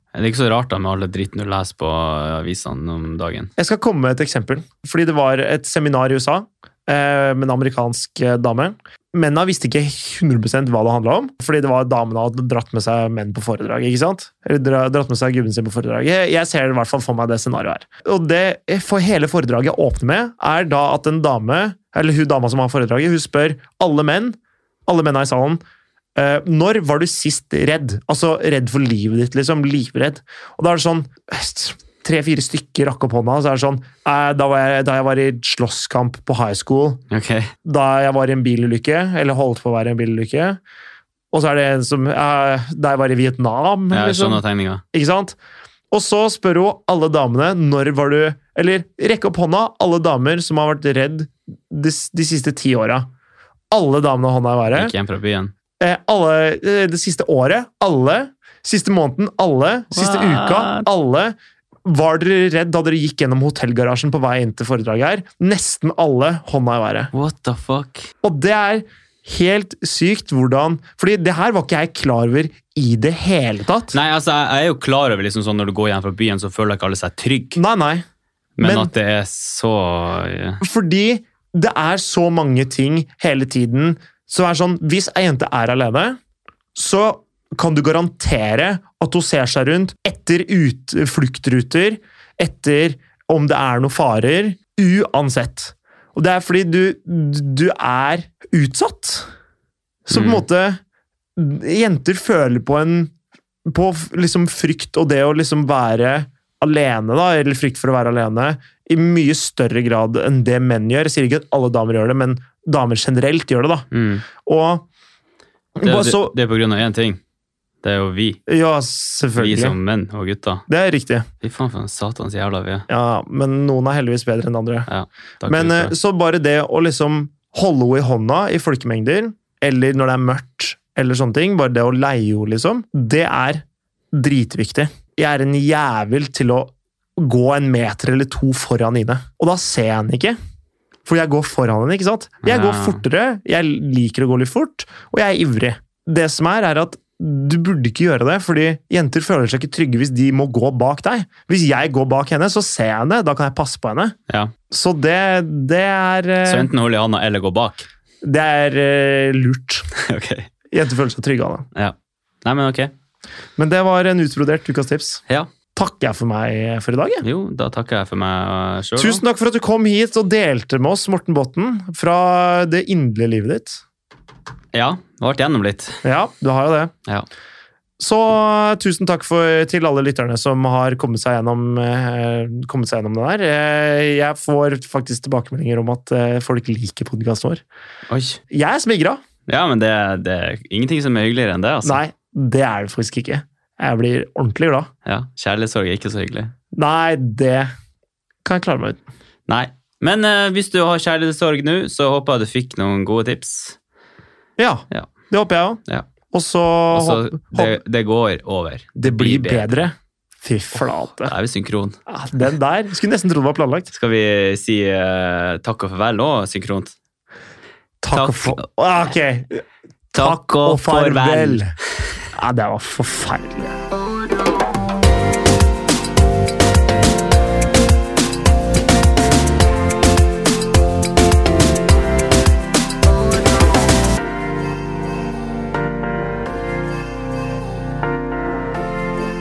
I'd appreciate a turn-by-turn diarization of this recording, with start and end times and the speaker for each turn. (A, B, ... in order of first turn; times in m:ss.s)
0:00.1-0:03.5 A
0:03.6-0:25.6 B
0:26.2-0:37.0 B
0:37.1-0:37.5 A
0:37.6-0:40.6 B
0:41.3-0:45.4 B
0:43.9-0:44.8 A
0:45.9-0:53.1 B
0:53.7-0:54.9 B
0:54.7-0:55.5 A
0:55.8-1:01.3 B
0:59.9-1:00.9 A
1:01.8-1:07.1 B
1:07.1-1:08.1 A
1:08.2-1:14.0 B
1:13.9-1:17.6 A
1:17.6-1:18.0 B
1:18.6-1:20.6 A
1:18.6-1:18.9 B
1:20.6-1:26.2 B
1:26.7-1:39.3 B
1:40.0-1:40.8 B
1:40.1-1:40.4 A
1:41.4-1:43.1 B
1:43.7-1:53.9 B
1:53.9-1:54.2 A
1:54.4-1:54.9 B
1:55.8-1:56.3 B
1:55.8-1:57.2 A
1:57.8-1:58.4 A
1:58.5-1:59.8 B
1:59.4-2:00.6 A
2:00.7-2:01.3 B
2:01.4-2:02.9 A
2:02.9-2:04.9 B
2:04.9-2:05.9 A
2:05.5-2:20.4 B
2:21.0-2:34.2 B
2:22.4-2:23.0 A
2:34.7-2:36.7 B
2:36.4-2:37.9 A
2:38.2-2:39.9 B
2:39.9-2:40.5 A
2:40.7-2:41.7 B
2:41.7-2:42.9 A
2:43.6-2:45.2 B
2:45.7-2:47.2 B
2:47.2-2:49.2 A
2:49.0-2:53.8 B
2:54.7-2:56.0 A
2:56.0-2:56.9 B
2:58.0-3:07.6 B
3:08.1-3:08.4 A
3:08.5-3:09.2 B
3:09.5-3:12.0 A
3:11.8-3:14.9 B
3:15.0-3:16.5 A
3:16.7-3:17.7 B
3:18.4-3:19.0 B
3:19.5-3:23.8 A
3:24.6-3:27.8 B
3:26.9-3:29.9 A
3:29.0-3:31.3 B
3:31.2-3:32.0 A
3:32.1-3:33.9 B
3:33.9-3:36.9 A
3:38.0-3:41.7 B
3:38.1-3:38.6 A
3:40.1-3:41.6 A
3:42.3-3:43.8 B